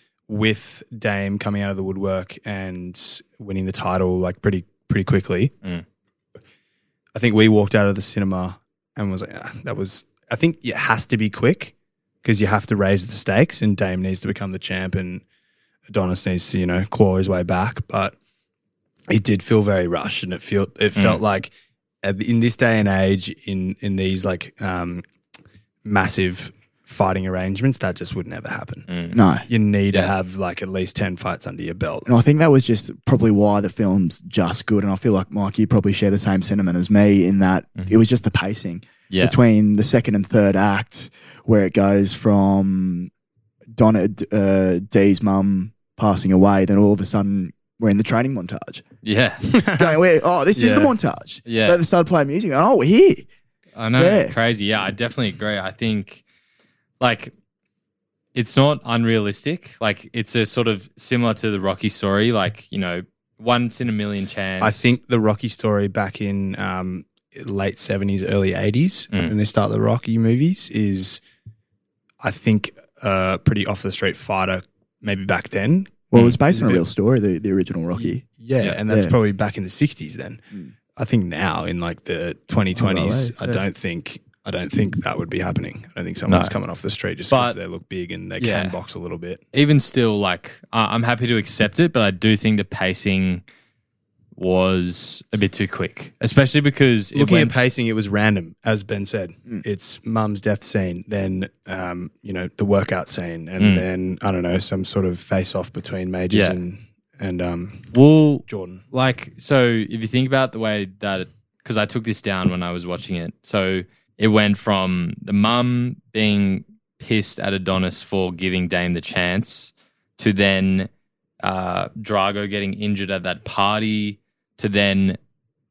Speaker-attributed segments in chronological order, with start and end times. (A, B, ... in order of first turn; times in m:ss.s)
0:00.3-0:05.5 A
0:07.1-0:11.7 A
0:12.2-0:15.2 A
0:15.9-0:18.1 A
0:19.1-0:21.5 A
0:20.9-0:21.2 B
0:22.0-0:25.0 A
0:25.8-0:28.9 A
0:28.9-0:29.2 B
0:29.1-0:29.4 C
0:29.5-0:32.1 A
0:32.0-0:43.1 C
0:39.1-0:39.3 B
0:43.7-0:48.8 C
0:49.0-0:49.5 B
0:49.5-0:50.0 A
0:49.7-0:53.2 C
0:50.6-0:50.9 A
0:51.4-0:51.8 B
0:53.8-0:56.2 B
0:53.9-0:54.3 C
0:57.0-0:57.3 B
0:58.3-1:05.0 B
1:04.6-1:11.2 A
1:12.2-1:16.8 A
1:16.1-1:19.2 C
1:18.0-1:20.4 A
1:21.0-1:29.4 A
1:22.7-1:23.6 C
1:26.3-1:26.6 B
1:27.3-1:27.6 B
1:28.4-1:28.8 B
1:29.5-1:33.4 B
1:34.4-1:37.5 B
1:37.1-1:47.9 A
1:43.6-1:43.8 B
1:46.3-1:46.6 B
1:47.9-2:00.9 B
1:48.4-1:48.8 A
2:01.4-2:05.2 B